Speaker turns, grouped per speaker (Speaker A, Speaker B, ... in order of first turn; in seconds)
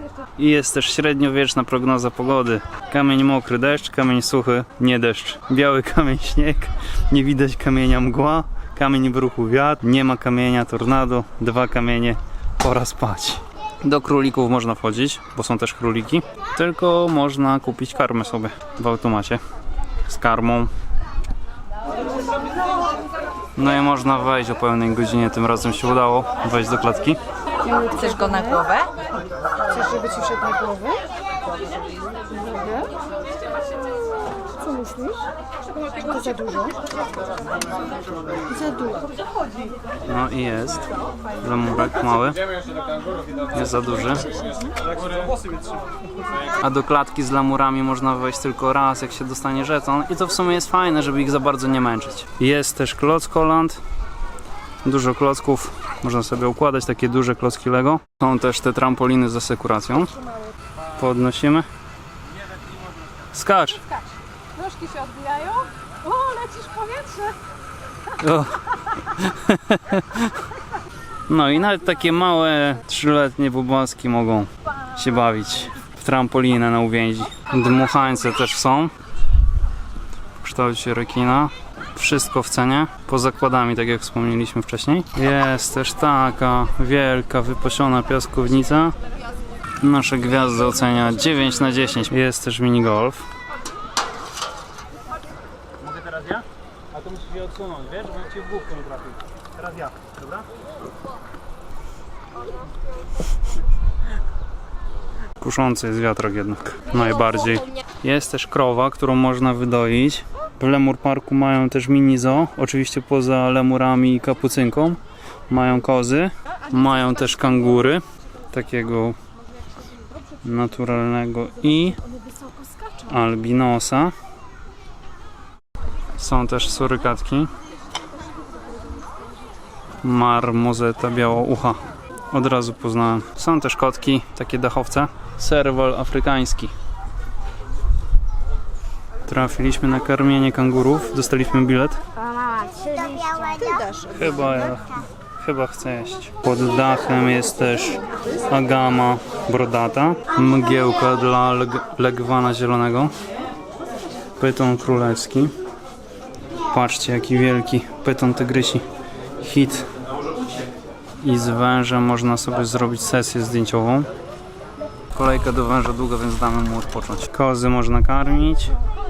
Speaker A: 0.4-19.4, 20.1-20.7, 23.6-27.2, 40.1-40.9, 41.4-42.4, 43.5-44.4, 46.6-53.8, 54.8-60.1, 61.0-61.7, 63.3-63.9, 68.2-70.3, 71.3-78.9, 80.4-88.9, 89.8-93.2, 95.8-100.5, 105.4-119.2, 120.4-122.0, 123.0-124.1, 126.2-127.5, 130.0-131.8, 132.3-136.7, 139.3-142.0, 144.0-153.1, 154.4-155.5, 156.7-158.8, 159.4-159.9, 161.2-164.1, 165.1-168.8
Speaker B: 27.6-28.9, 29.7-31.0, 32.4-32.9, 34.7-35.2, 36.0-36.8, 38.6-38.9, 64.6-67.3, 142.2-144.0